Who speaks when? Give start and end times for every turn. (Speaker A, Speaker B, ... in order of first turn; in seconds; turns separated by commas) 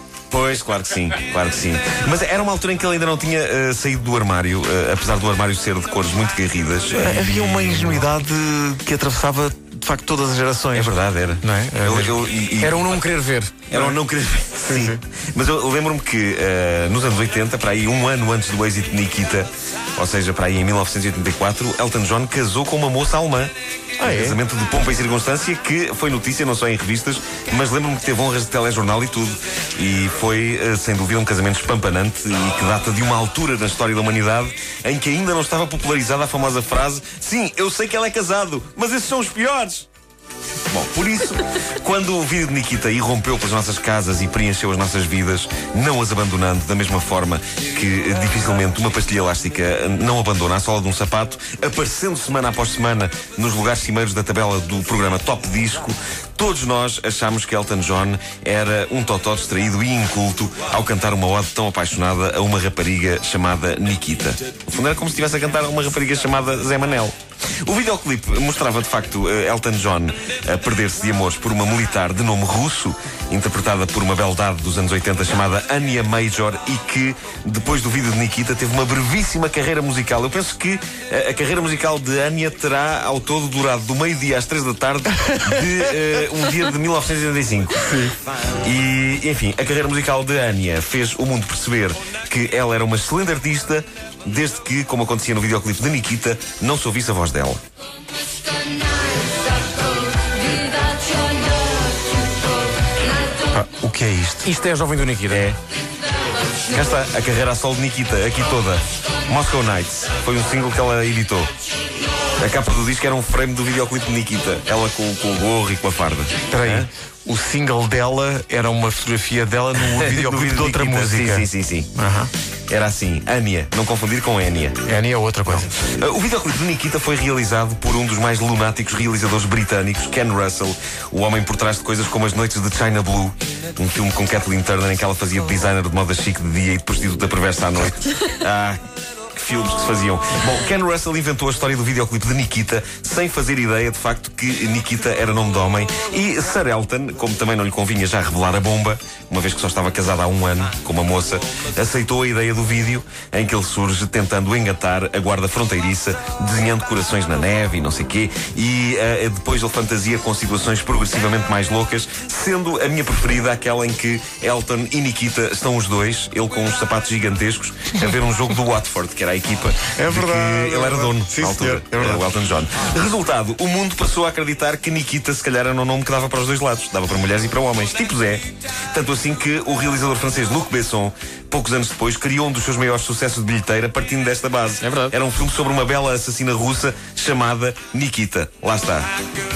Speaker A: 0.3-8.0, Speaker B: 6.9-12.2, Speaker A: 10.7-13.0, Speaker C: 12.6-13.7, Speaker A: 13.7-39.9, Speaker B: 13.7-14.0, Speaker B: 14.7-15.0, Speaker B: 24.0-24.4, Speaker A: 40.7-97.6, Speaker B: 87.9-88.1, Speaker B: 103.5-104.5, Speaker C: 104.4-105.5, Speaker A: 105.3-105.6, Speaker A: 106.7-111.5, Speaker A: 112.4-116.9, Speaker B: 116.5-122.3, Speaker A: 119.8-121.9, Speaker A: 122.7-124.8, Speaker B: 124.8-125.7, Speaker A: 125.5-138.8, Speaker A: 139.3-189.1, Speaker B: 169.9-172.2, Speaker B: 184.8-185.1